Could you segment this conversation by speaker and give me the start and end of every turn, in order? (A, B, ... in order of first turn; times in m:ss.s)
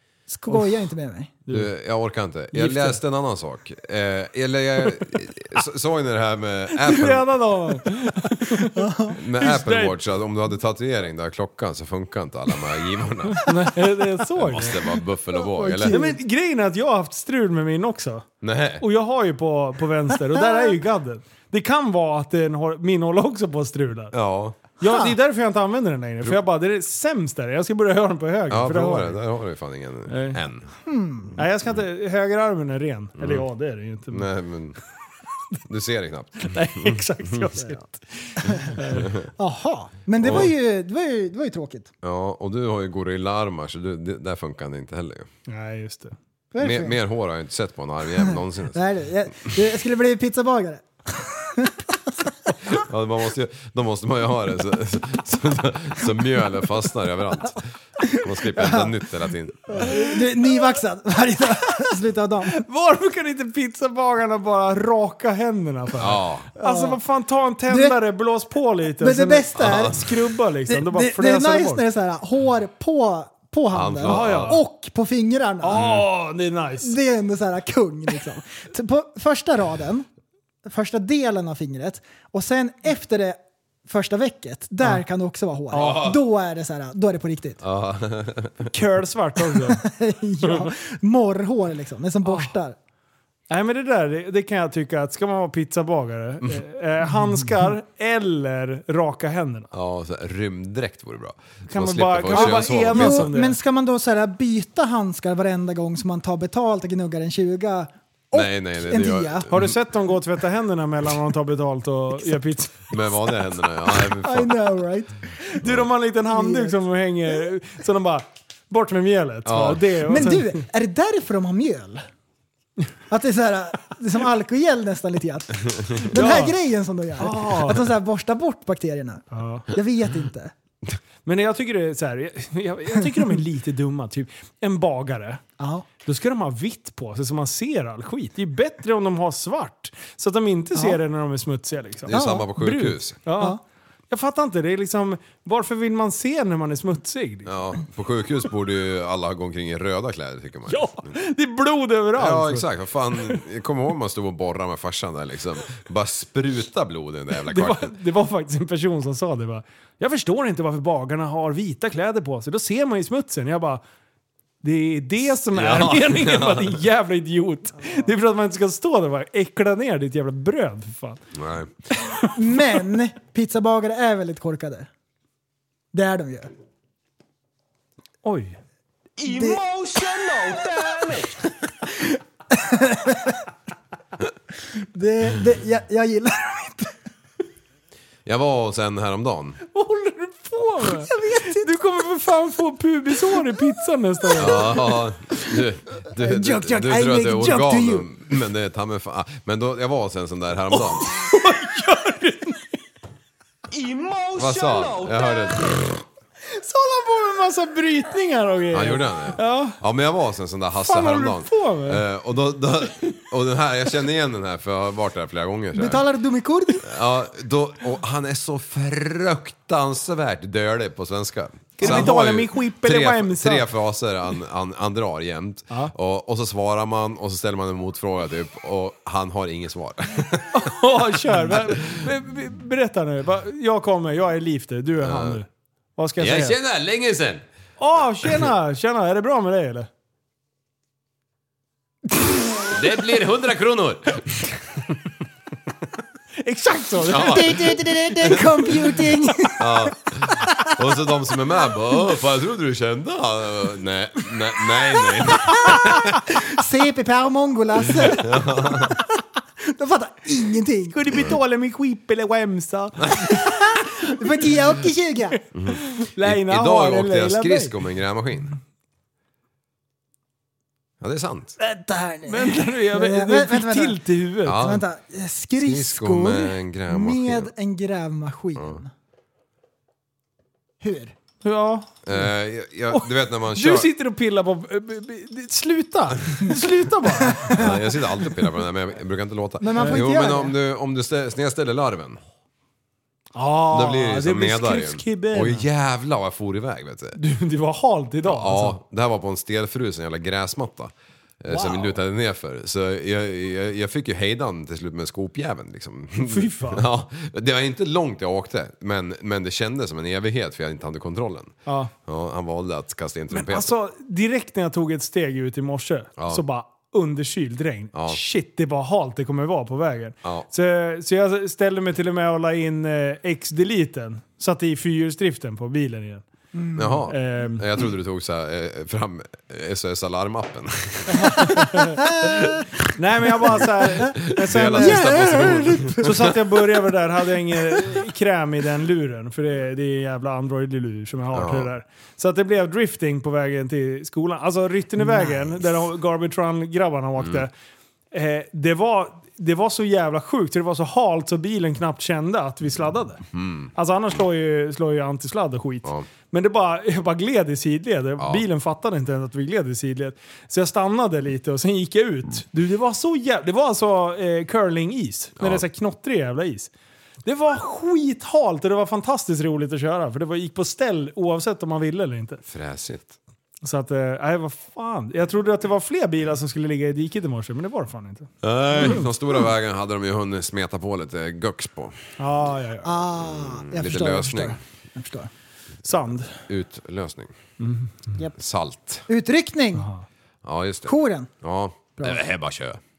0:00.3-0:01.3 A
0:00.5-0:00.8 B
0:01.4-0:01.7 B
0:01.5-0:07.3 C
0:02.5-0:03.0 B
0:06.7-0:10.0 B
0:08.7-0:09.2 A
0:09.2-0:13.5 C
0:13.4-0:14.9 B
0:14.4-0:16.0 C
0:15.6-0:16.2 A
0:15.8-0:18.3 B
0:18.4-0:18.8 C
0:18.8-0:24.2 B
0:20.3-0:20.8 A
0:24.1-0:24.6 C
0:24.8-0:29.2 B
0:24.8-0:25.1 A
0:28.5-0:30.7 C
0:30.1-0:30.4 B
0:30.8-0:31.4 A
0:31.4-0:34.3 B
0:33.2-0:33.5 C
0:34.1-0:34.8 C
0:35.6-0:37.5 C
0:36.4-0:39.2 B
0:38.9-0:39.3 C
0:39.4-0:41.9 A
0:40.2-0:40.5 C
0:42.0-0:45.3 C
0:45.5-0:46.2 B
0:46.5-0:47.0 A
0:46.6-0:48.8 C
0:48.3-0:51.8 A
0:52.6-0:59.9 C
0:58.0-0:58.9 A
0:59.7-1:02.6 A
1:02.5-1:11.8 B
1:06.0-1:06.5 C
1:06.6-1:07.0 A
1:07.7-1:08.0 A
1:09.0-1:10.0 A
1:09.6-1:10.1 C
1:10.7-1:15.8 A
1:13.7-1:14.6 C
1:14.0-1:14.6 B
1:15.6-1:17.0 B
1:15.7-1:16.1 C
1:16.8-1:20.1 A
1:20.6-1:27.6 A
1:25.7-1:26.1 B
1:25.8-1:26.2 C
1:27.6-1:28.7 C
1:28.7-1:29.8 B
1:29.7-1:32.8 A
1:30.4-1:30.7 B
1:32.2-1:32.5 B
1:33.5-1:39.7 B
1:37.1-1:37.6 A
1:39.7-1:43.3 C
1:41.7-1:43.6 B
1:42.3-1:49.5 A
1:48.3-1:49.7 C
1:49.5-1:53.0 B
1:52.9-1:54.6 C
1:54.2-1:55.5 A
1:55.6-2:00.6 B
1:56.3-1:56.8 A
1:59.4-1:59.8 C
2:00.1-2:02.0 A
2:03.1-2:10.5 A
2:06.1-2:06.6 B
2:07.2-2:07.9 B
2:09.3-2:09.7 B
2:11.2-2:15.4 B
2:15.6-2:15.8 A
2:16.0-2:23.6 B
2:22.1-2:23.2 C
2:22.1-2:22.4 A
2:24.1-2:27.6 B
2:27.4-2:31.1 C
2:30.7-2:33.4 B
2:32.2-2:37.9 C
2:37.3-2:43.8 B
2:44.6-2:51.2 B
2:45.5-2:46.8 C
2:51.3-2:51.7 C
2:52.0-2:52.8 B
2:52.3-2:54.9 A
2:55.9-2:56.5 A
2:58.2-2:58.6 B
2:59.2-3:01.4 D
2:59.3-2:59.6 A
3:02.5-3:03.4 A
3:04.9-3:06.9 A
3:08.2-3:09.6 C
3:09.7-3:14.7 B
3:11.0-3:11.7 A
3:14.4-3:21.1 C
3:16.2-3:18.1 A
3:20.7-3:22.8 B
3:23.7-3:25.6 D
3:24.4-3:26.0 C
3:26.5-3:29.8 B
3:28.7-3:36.0 C
3:30.8-3:32.0 B
3:35.7-3:36.8 A
3:36.8-3:52.1 C
3:41.8-3:43.7 B
3:50.5-3:56.6 B
3:55.0-3:55.4 C
3:56.2-3:57.4 C
3:57.8-3:59.9 B
4:02.7-4:04.6 C
4:06.4-4:07.7 B
4:07.1-4:07.6 C
4:07.2-4:09.9 A
4:09.6-4:16.1 C
4:15.5-4:15.8 A
4:16.4-4:19.0 A
4:18.0-4:18.9 C
4:19.6-4:21.0 A
4:20.9-4:23.5 B
4:23.2-4:25.4 A
4:25.5-4:28.5 C
4:25.7-4:27.7 B
4:31.0-4:31.6 C
4:31.6-4:34.0 A
4:32.3-4:34.7 B
4:34.4-4:34.8 C
4:34.6-4:38.9 A
4:35.6-4:37.5 C
4:40.8-4:41.1 A
4:41.4-4:42.2 B
4:42.0-4:43.9 C
4:42.9-4:47.7 B
4:47.2-4:47.7 A
4:47.5-4:52.2 C
4:49.6-4:50.6 A
4:49.8-4:50.0 B
4:53.4-4:55.6 B
4:53.7-4:57.2 C
4:57.2-4:58.8 B
4:58.2-5:13.7 C
5:01.5-5:01.9 B
5:06.2-5:06.8 B
5:11.6-5:11.9 B
5:13.3-5:26.2 B
5:16.2-5:16.4 C
5:17.9-5:18.2 C
5:26.5-5:27.1 A
5:26.8-5:31.6 C
5:27.1-5:27.6 B
5:31.1-5:32.0 B
5:31.9-5:32.6 A
5:32.2-5:32.6 C
5:32.9-5:35.4 B
5:33.9-5:36.4 C
5:34.8-5:36.3 A
5:36.0-5:47.5 B
5:41.3-5:41.7 C
5:45.0-5:45.6 A
5:47.2-5:47.4 C
5:48.1-5:53.2 B
5:53.3-5:53.7 C
5:53.7-6:06.7 B
5:58.2-5:58.4 C
6:05.4-6:05.6 C
6:07.2-6:12.4 B
6:12.4-6:13.2 C
6:13.6-6:19.0 B
6:18.4-6:22.0 C
6:22.2-6:22.9 B
6:22.8-6:25.3 A
6:23.2-6:24.6 C
6:25.8-6:26.4 B
6:26.5-6:27.3 C
6:27.6-6:28.1 B
6:28.3-6:29.0 C
6:29.1-6:29.9 A
6:29.8-6:30.0 B
6:30.4-6:32.8 C
6:30.8-6:31.3 A
6:32.0-6:32.2 A